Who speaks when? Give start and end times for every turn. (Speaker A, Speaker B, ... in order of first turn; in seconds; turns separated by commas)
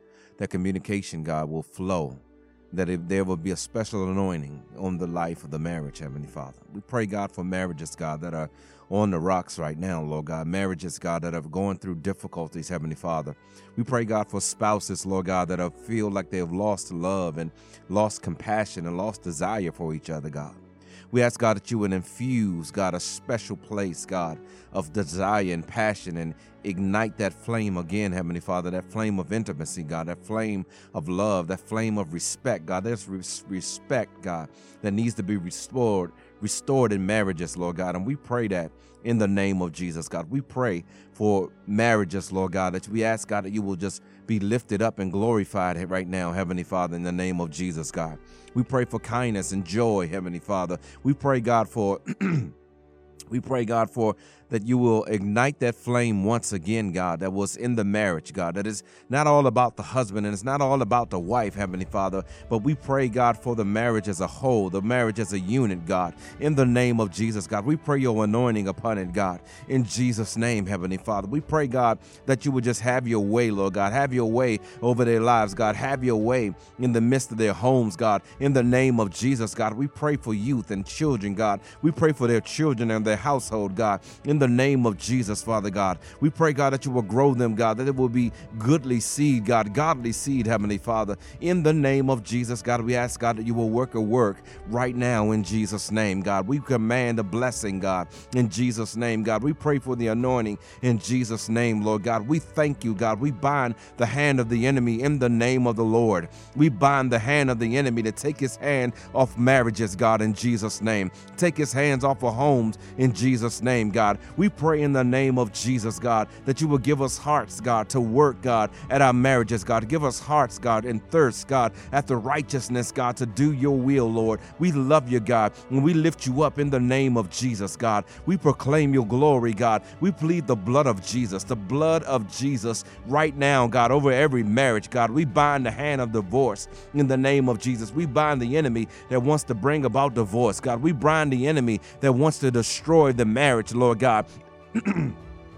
Speaker A: 0.4-52.5, Speaker A: 53.3-145.2